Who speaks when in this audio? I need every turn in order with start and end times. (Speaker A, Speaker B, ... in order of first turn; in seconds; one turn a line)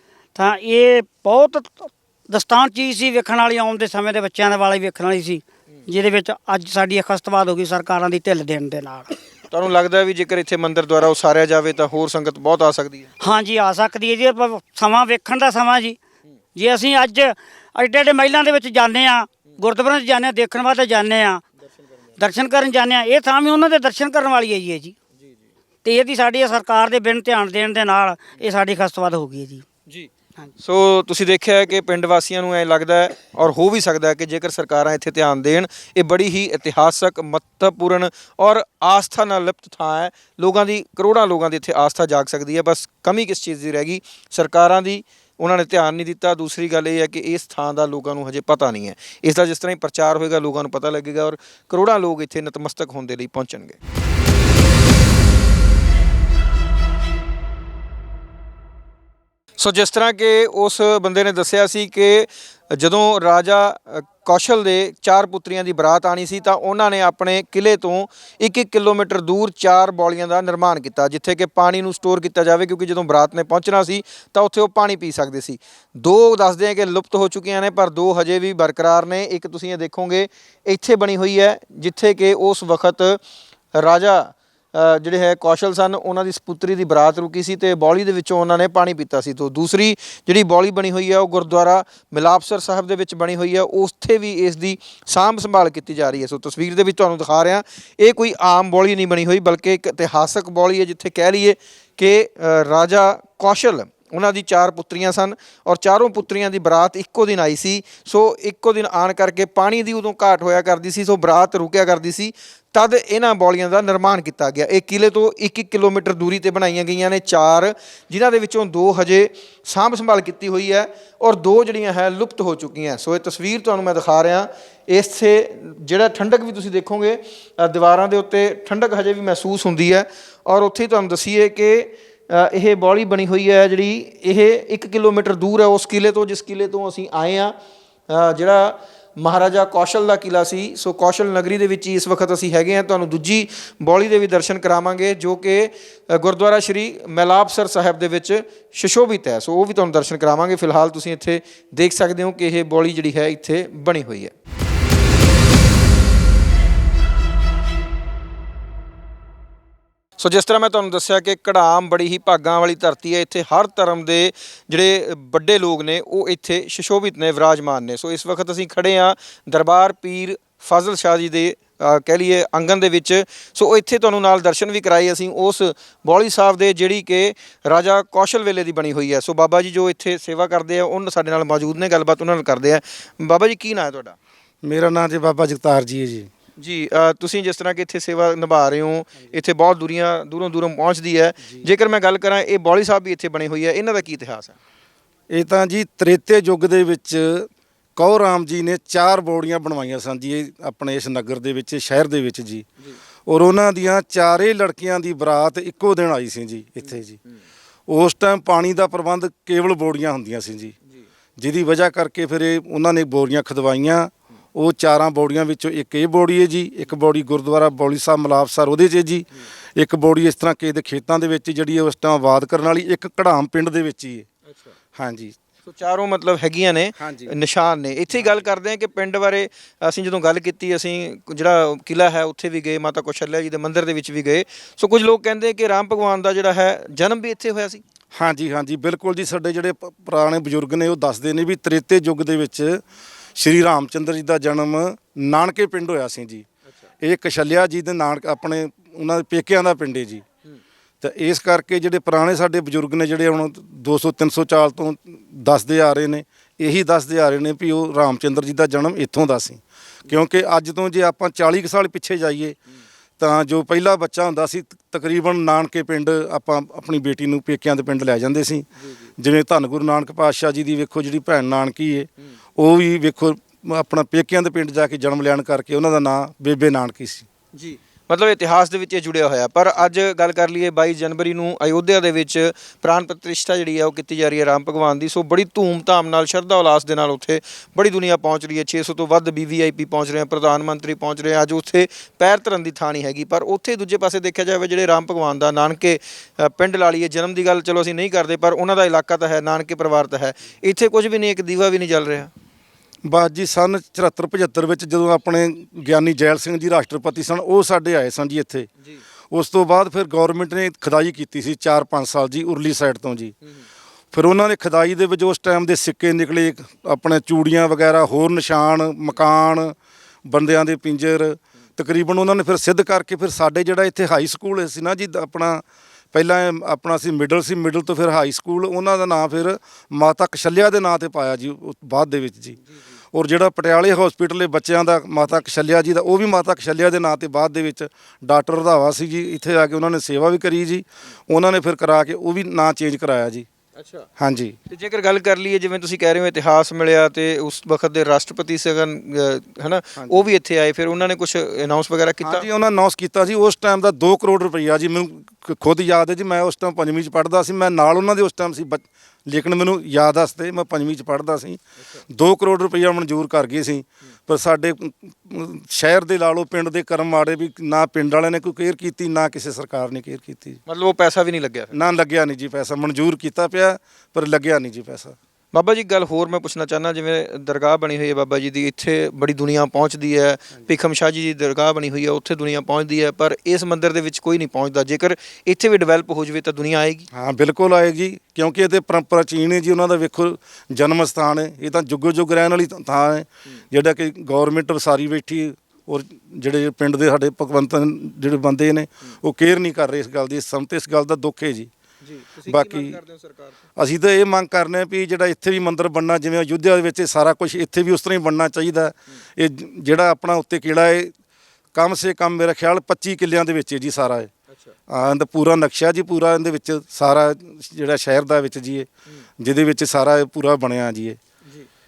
Speaker A: 0.3-9.1
Speaker B: 9.5-13.1
Speaker A: 13.2-16.0
Speaker A: 16.5-21.4
Speaker B: 21.8-22.1
Speaker A: 22.2-24.9
Speaker A: 25.8-29.6
Speaker B: 30.6-53.8
Speaker B: 59.6-83.2
Speaker B: 83.7-137.5
Speaker B: 138.1-154.3
Speaker B: 160.2-184.2
Speaker C: 184.6-186.3
Speaker B: 186.6-194.6
Speaker C: 195.3-202.7
Speaker C: 203.2-207.2
Speaker C: 207.9-210.8
Speaker C: 211.4-224.3
Speaker B: 224.4-224.7
Speaker C: 224.9-225.4
Speaker B: 225.6-237.8
Speaker C: 227.0-227.3
Speaker C: 228.1-228.5
Speaker C: 238.1-242.8
Speaker C: 243.3-246.4
Speaker C: 247.0-250.2
Speaker C: 251.0-262.6
Speaker C: 263.2-277.3
Speaker B: 268.8-269.1
Speaker B: 277.5-302.3
Speaker C: 303.0-308.7
Speaker C: 309.3-313.3
Speaker C: 314.1-319.7
Speaker C: 320.3-332.6
Speaker C: 333.1-343.5
Speaker B: 343.7-344.1
Speaker C: 344.2-344.6
Speaker B: 344.7-352.5
Speaker C: 350.0-350.3
Speaker C: 352.2-370.6
Speaker B: 370.7-371.7
Speaker C: 371.7-375.1
Speaker B: 375.5-387.1
Speaker C: 387.1-401.7
Speaker B: 402.0-403.6
Speaker C: 402.4-403.0
Speaker C: 403.8-411.1
Speaker C: 411.7-414.3
Speaker B: 414.5-414.7
Speaker C: 414.9-418.9
Speaker C: 419.4-421.2